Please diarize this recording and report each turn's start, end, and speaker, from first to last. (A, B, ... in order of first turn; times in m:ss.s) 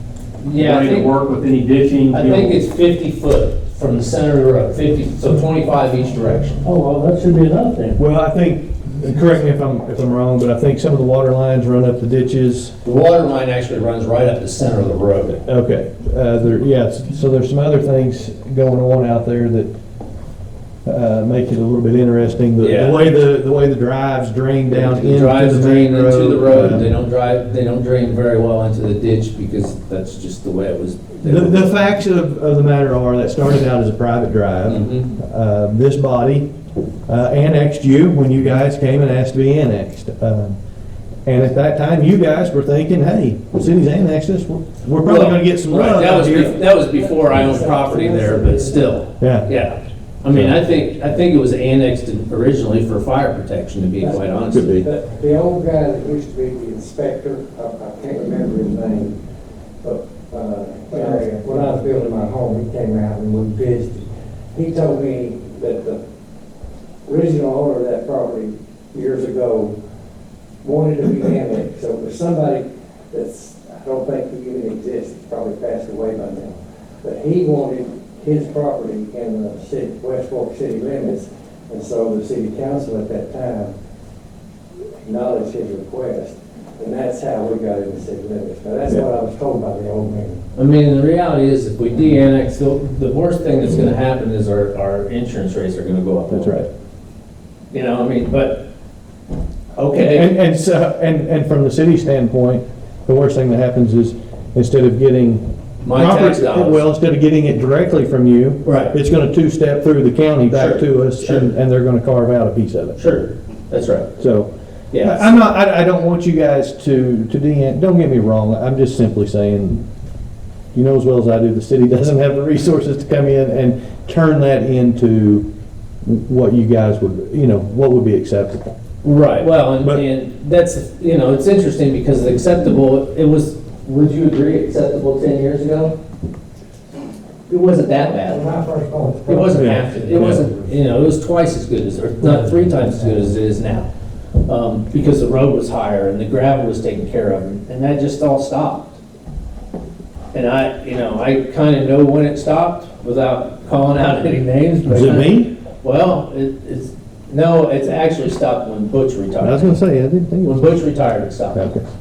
0:00.4-0:01.1 A
0:00.5-0:02.6 B
0:02.1-0:06.6 A
0:06.6-0:08.0 B
0:08.0-0:12.7 C
0:12.8-0:15.4 A
0:15.5-0:19.7 C
0:20.8-0:26.9 C
0:22.6-0:23.1 A
0:24.7-0:31.8 A
0:31.2-0:36.5 C
0:34.7-0:35.1 A
0:37.1-0:40.6 C
0:41.3-0:46.6 C
0:45.0-0:54.9 A
0:46.8-0:49.0 D
0:49.2-0:49.5 C
0:50.3-0:50.6 C
0:54.5-0:54.9 C
0:54.8-0:59.2 D
0:59.8-1:06.0 D
1:07.1-1:09.8 D
1:10.6-1:23.7 D
1:25.0-1:30.4 D
1:30.6-1:36.7 A
1:36.3-1:36.7 C
1:37.7-1:38.6 A
1:39.8-1:40.3 A
1:39.9-1:53.0 C
1:45.8-1:46.8 A
1:48.6-1:49.0 A
1:50.5-1:51.5 A
1:53.0-1:54.1 A
1:54.2-1:54.5 C
1:54.9-1:55.5 A
1:55.0-1:59.8 C
2:00.7-2:05.4 C
2:06.0-2:08.7 C
2:09.0-2:16.0 A
2:09.8-2:10.0 C
2:17.5-2:18.5 A
2:17.9-2:20.8 D
2:19.3-2:23.9 A
2:19.6-2:20.4 C
2:24.5-2:29.0 A
2:30.3-2:39.8 A
2:34.9-2:35.5 C
2:39.4-2:40.7 C
2:40.4-2:41.6 A
2:41.5-2:41.8 C